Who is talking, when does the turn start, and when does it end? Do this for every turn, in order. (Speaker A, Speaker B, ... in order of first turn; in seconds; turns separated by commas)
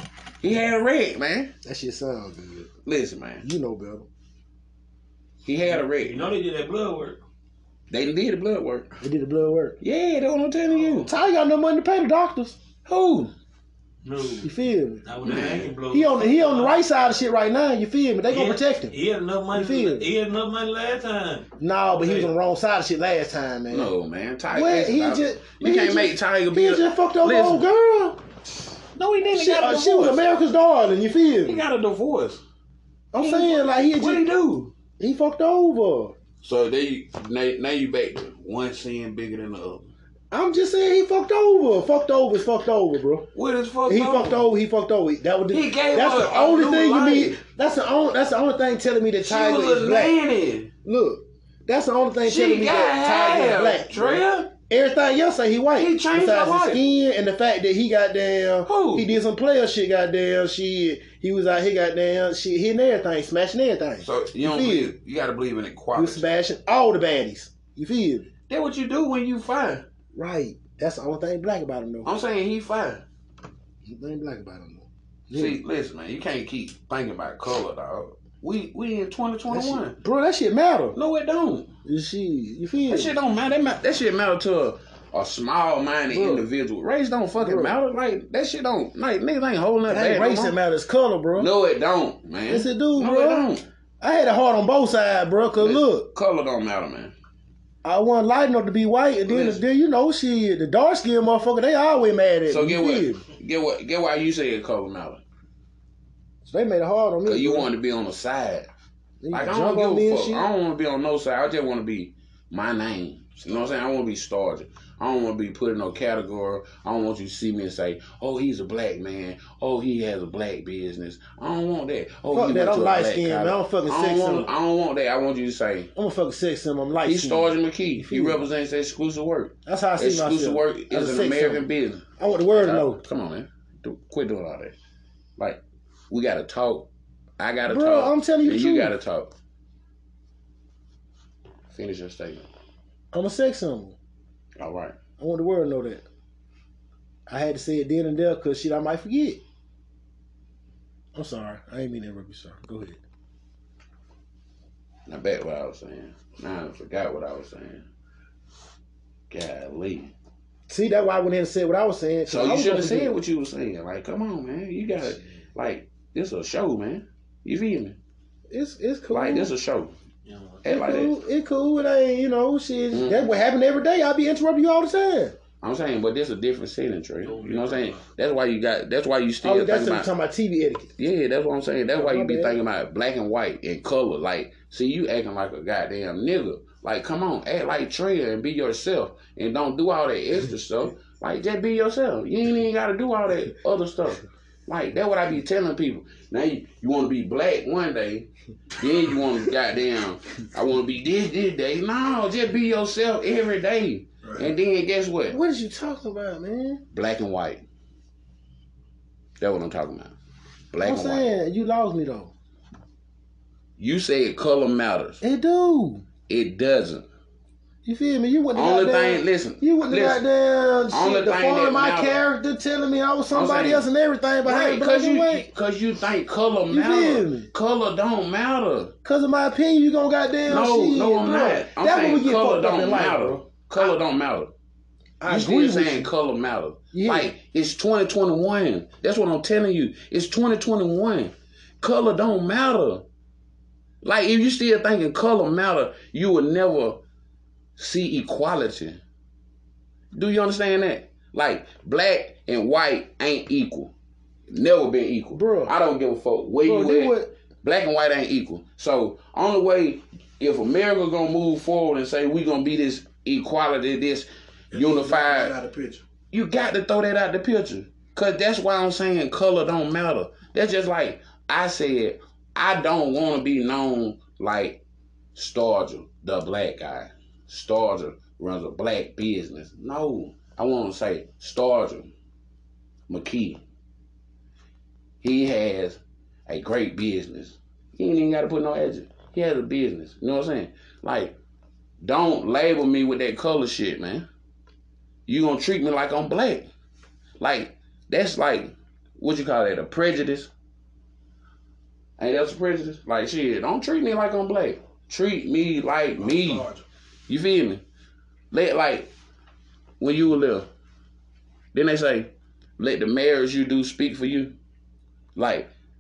Speaker A: 0.4-1.5, Speaker B: 1.6-2.7, Speaker A: 2.8-3.5, Speaker B: 3.4-4.1, Speaker A: 5.4-6.3, Speaker C: 5.7-7.2, Speaker A: 7.9-9.0, Speaker B: 9.0-9.8, Speaker A: 9.8-11.1, Speaker C: 10.7-11.1, Speaker B: 11.1-12.6, Speaker A: 12.8-13.3, Speaker C: 14.0-16.8, Speaker B: 14.4-15.1, Speaker A: 15.2-15.7, Speaker B: 15.8-19.0, Speaker C: 18.3-21.5, Speaker B: 19.5-20.1, Speaker B: 21.6-23.9, Speaker C: 22.0-22.3, Speaker A: 23.7-27.6, Speaker B: 24.5-28.2, Speaker A: 28.9-30.2, Speaker B: 29.3-31.6, Speaker A: 31.4-32.4, Speaker B: 33.1-34.3, Speaker A: 33.2-34.7, Speaker B: 35.0-36.1, Speaker A: 36.4-39.9, Speaker B: 40.3-43.3, Speaker A: 43.3-44.4, Speaker B: 43.9-50.2, Speaker A: 45.5-47.4, Speaker A: 49.2-50.7, Speaker B: 50.8-64.9, Speaker A: 52.2-54.5, Speaker A: 55.7-56.8, Speaker A: 58.6-59.1, Speaker A: 64.0-66.2, Speaker B: 65.9-68.3, Speaker A: 68.5-69.8, Speaker B: 70.1-72.1, Speaker A: 72.0-73.0, Speaker B: 73.8-75.6, Speaker A: 75.3-80.0, Speaker B: 79.5-81.0, Speaker A: 80.9-81.7, Speaker B: 81.8-83.1, Speaker A: 82.9-90.6, Speaker B: 86.1-86.5, Speaker B: 87.4-87.8, Speaker B: 89.8-91.5, Speaker A: 91.4-93.7, Speaker B: 92.5-93.5, Speaker B: 94.0-96.1, Speaker A: 95.6-97.1, Speaker B: 97.8-103.2, Speaker A: 99.3-99.6, Speaker A: 102.5-105.2, Speaker B: 106.4-107.7, Speaker A: 107.2-108.7, Speaker B: 109.2-110.5, Speaker A: 109.3-125.9, Speaker B: 122.3-124.5, Speaker B: 125.9-128.4, Speaker A: 127.0-134.7, Speaker B: 129.7-133.0, Speaker A: 135.4-139.3, Speaker B: 137.7-138.9, Speaker A: 141.7-142.5, Speaker B: 143.1-143.9, Speaker A: 144.6-144.9, Speaker B: 145.2-146.0, Speaker B: 147.3-149.4, Speaker B: 151.1-153.0, Speaker A: 155.1-157.8, Speaker A: 159.3-160.1, Speaker B: 160.7-163.2, Speaker A: 162.3-168.0, Speaker B: 168.5-169.5, Speaker A: 169.1-169.9, Speaker C: 170.2-170.6, Speaker A: 170.6-171.1, Speaker B: 170.6-175.3, Speaker A: 172.9-173.3, Speaker A: 175.6-180.1, Speaker C: 177.2-178.0, Speaker B: 179.4-180.9, Speaker A: 181.0-205.4, Speaker B: 181.9-182.6, Speaker B: 205.3-206.8, Speaker A: 206.9-207.6, Speaker A: 209.4-210.1, Speaker A: 210.7-211.3, Speaker B: 210.8-212.3, Speaker A: 213.8-215.2, Speaker B: 215.2-216.0, Speaker A: 216.3-217.1, Speaker B: 217.8-225.5, Speaker A: 218.5-220.2, Speaker A: 220.9-222.2, Speaker A: 223.3-223.9, Speaker A: 224.4-228.9, Speaker B: 226.7-227.5, Speaker B: 229.0-233.9, Speaker A: 230.4-234.5, Speaker B: 235.2-236.1, Speaker A: 235.2-243.0, Speaker B: 236.9-237.3, Speaker A: 244.0-247.0, Speaker A: 247.8-249.0, Speaker A: 250.1-253.9, Speaker A: 254.5-265.5, Speaker B: 255.3-255.7, Speaker B: 256.6-257.3, Speaker D: 264.7-266.0, Speaker A: 266.3-274.8, Speaker A: 275.3-282.1, Speaker A: 283.1-283.6, Speaker A: 285.2-291.4, Speaker A: 292.0-294.3, Speaker A: 295.3-296.7, Speaker A: 297.4-300.5, Speaker A: 302.2-306.6, Speaker D: 306.2-306.8, Speaker A: 307.3-307.8, Speaker A: 308.5-309.1, Speaker A: 310.0-310.7, Speaker A: 311.7-314.6, Speaker A: 315.4-315.7